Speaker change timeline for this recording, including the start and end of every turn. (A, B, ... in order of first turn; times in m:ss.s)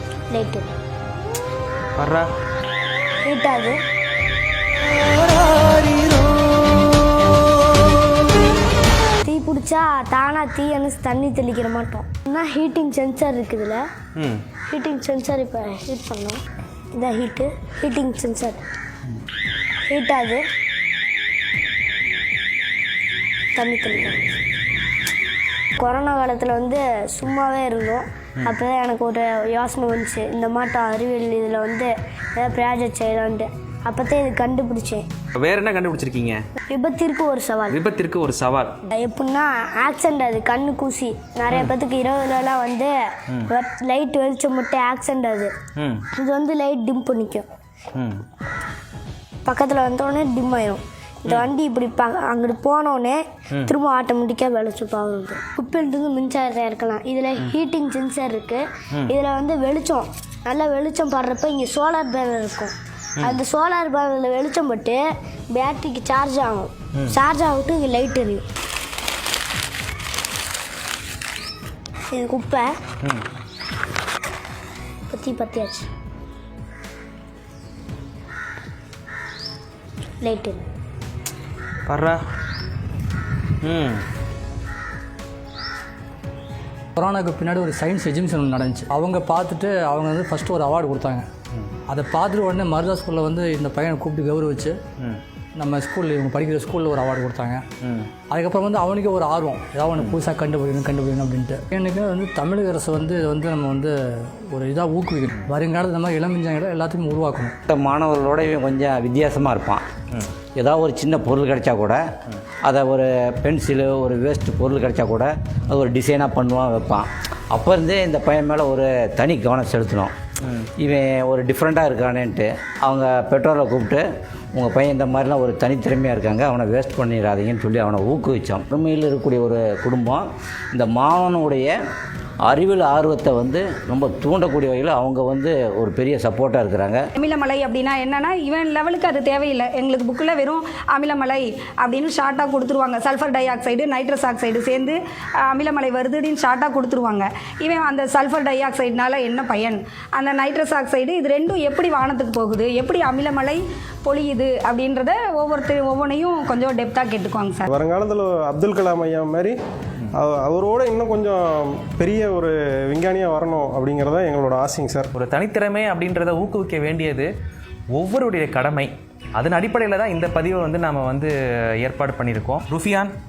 0:00.3-0:00.7 A
0:02.0-0:02.3 B
0:03.2-0:03.8 A
0:09.2-0:13.8 A
0:14.2-0:14.4 B
0:14.7-0:16.4 A
0:16.9-0:18.6 A
0:19.9-0:20.4 A
0:23.5-0:24.2 A
0:25.7-0:35.1 A
0:35.3-0:36.4 B
0:36.7-0:37.8 A
0:37.7-0:38.8 B
0:38.9-0:45.5 A
0:45.8-0:46.0 B
0:46.1-0:47.5 A
0:47.9-0:48.2 B
0:49.4-1:05.0 A
1:05.5-1:08.4 A
1:12.1-1:12.7 A
1:15.1-1:15.9 A
1:20.2-1:20.7 A
1:21.9-1:22.2 B
1:23.6-1:24.0 B
1:27.0-1:31.3 C
1:31.9-1:34.8 C
1:35.6-1:37.6 C
1:37.8-1:38.1 B
1:38.3-1:47.6 C
1:47.7-1:49.8 D
1:50.6-1:52.0 D
1:52.6-2:11.7 D
2:12.4-2:17.0 D
2:17.2-2:37.6 E
2:37.6-2:39.6 F
2:40.1-2:45.1 F
2:45.2-2:47.3 B
2:47.9-2:53.1 B